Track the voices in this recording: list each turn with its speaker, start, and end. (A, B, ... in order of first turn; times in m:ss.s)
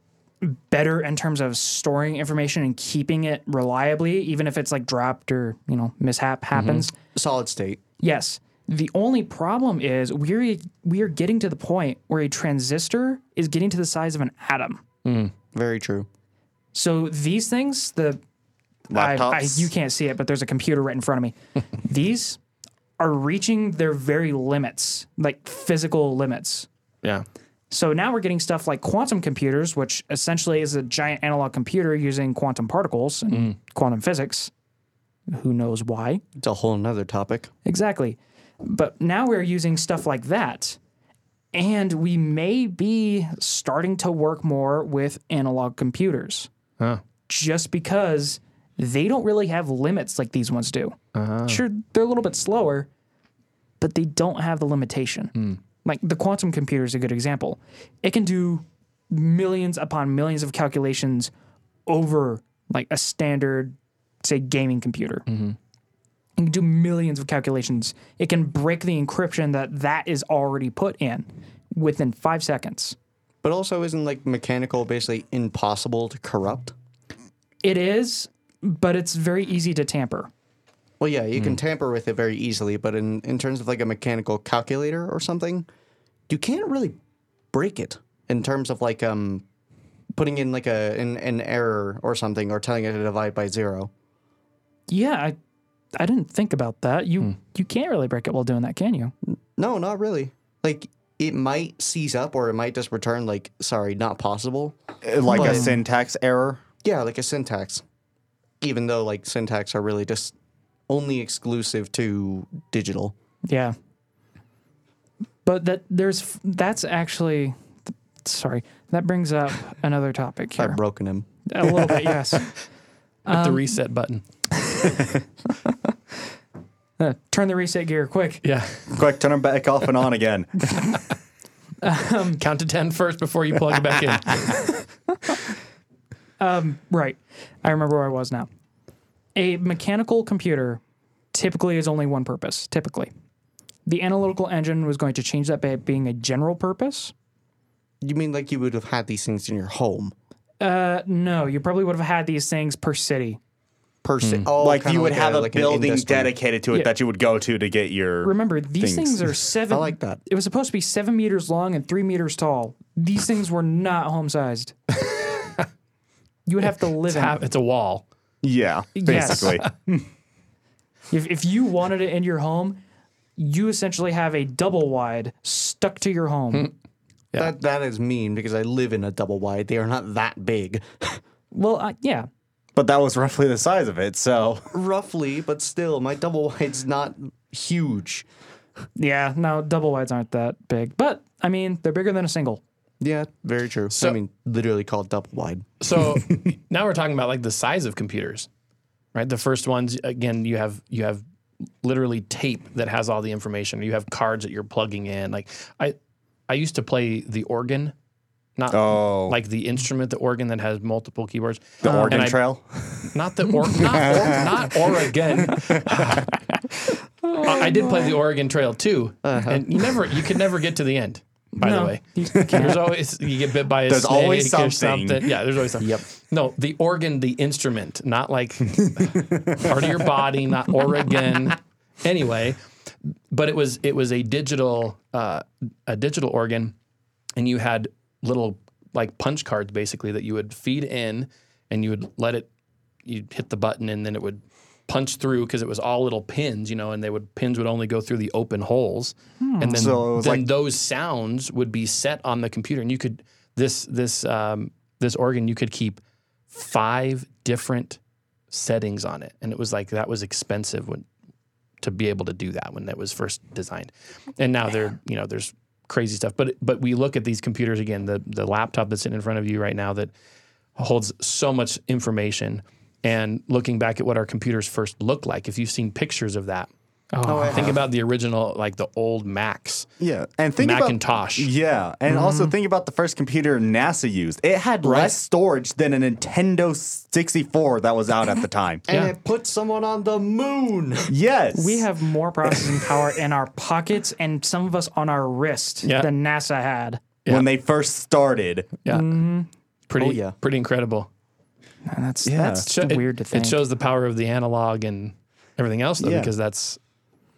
0:00.4-0:06.9 A
0:06.6-0:06.9 B
0:07.1-0:07.8 C
0:08.0-0:14.8 A
0:15.0-0:15.3 B
0:15.5-0:16.1 C
0:16.7-0:18.2 A
0:18.9-0:19.7 D
0:18.9-0:22.4 A
0:23.0-0:26.7 A
0:27.7-0:34.5 A
0:35.3-0:36.2 A
0:36.4-0:37.5 C
0:37.6-0:40.8 A
0:41.5-0:46.5 A
0:47.3-0:52.9 A
0:51.2-0:51.6 B
0:53.8-0:55.3 A
0:55.8-1:01.3 A
1:01.9-1:05.2 A
1:05.3-1:05.6 B
1:06.4-1:13.0 A
1:13.4-1:16.7 C
1:17.6-1:20.3 A
1:21.0-1:25.7 C
1:26.3-1:27.0 C
1:27.5-1:29.4 C
1:30.1-1:33.9 C
1:34.9-1:35.4 A
1:36.0-1:39.1 A
1:39.3-1:44.8 C
1:45.0-1:46.6 D
1:45.3-1:45.8 A
1:45.3-1:45.6 C
1:46.8-1:47.8 C
1:48.6-1:50.3 C
1:50.9-1:53.1 C
1:53.5-1:53.8 A
1:55.4-1:57.6 A
1:58.2-2:00.8 A
2:00.6-2:01.3 C
2:01.5-2:02.5 A
2:03.3-2:03.6 A
2:03.3-2:04.2 B
2:07.0-2:08.4 A
2:08.4-2:08.8 B
2:08.9-2:10.8 D
2:11.8-2:12.4 A
2:12.4-2:14.7 B
2:16.4-2:18.5 A
2:19.4-2:20.8 A
2:21.3-2:23.1 A
2:23.9-2:27.1 A
2:28.0-2:30.1 C
2:30.6-2:33.4 A
2:34.0-2:36.4 C
2:34.2-2:34.5 B
2:34.6-2:39.4 D
2:38.2-2:44.8 A
2:39.7-2:40.2 C
2:46.5-2:47.4 A
2:47.1-2:48.0 B
2:48.4-2:50.1 D
2:49.0-2:49.6 A
2:49.1-2:49.6 B
2:51.1-2:52.8 A
2:53.4-2:56.7 A
2:57.4-3:01.2 C
3:01.5-3:02.3 A
3:02.8-3:04.7 D
3:04.7-3:08.3 C
3:09.0-3:12.6 A
3:13.0-3:15.7 C
3:13.9-3:14.2 B
3:15.8-3:18.5 B
3:19.1-3:21.2 B
3:21.8-3:26.0 B
3:26.5-3:27.9 B
3:28.6-3:32.4 B
3:28.7-3:29.4 D
3:31.8-3:33.1 D
3:31.8-3:32.2 A
3:33.1-3:36.3 B
3:33.7-3:34.5 D
3:35.6-3:36.2 D
3:37.2-3:38.2 A
3:37.4-3:52.6 B
3:39.2-3:39.6 C
3:41.6-3:42.9 A
3:43.9-3:45.3 D
3:48.8-3:49.7 D
3:53.3-3:56.7 B
3:57.4-4:02.5 B
4:03.0-4:16.0 B
4:09.4-4:10.0 A
4:09.7-4:10.5 D
4:16.5-4:18.0 B
4:18.5-4:21.0 B
4:21.8-4:30.1 B
4:30.8-4:36.7 B
4:37.1-4:37.7 A
4:37.2-4:37.8 C
4:37.5-4:39.9 B
4:40.0-4:48.8 D
4:40.6-4:41.5 B
4:42.1-4:42.5 A
4:44.8-4:45.2 B
4:48.9-4:51.1 C
4:48.9-4:49.1 B
4:51.1-4:51.9 D
4:51.5-4:57.0 A
4:55.8-4:56.1 B
4:57.3-4:58.8 D
4:58.9-4:59.5 A
4:59.9-5:01.1 B
5:00.0-5:00.4 C
5:01.9-5:03.6 A
5:02.2-5:02.7 D
5:02.7-5:06.8 B
5:06.0-5:06.3 D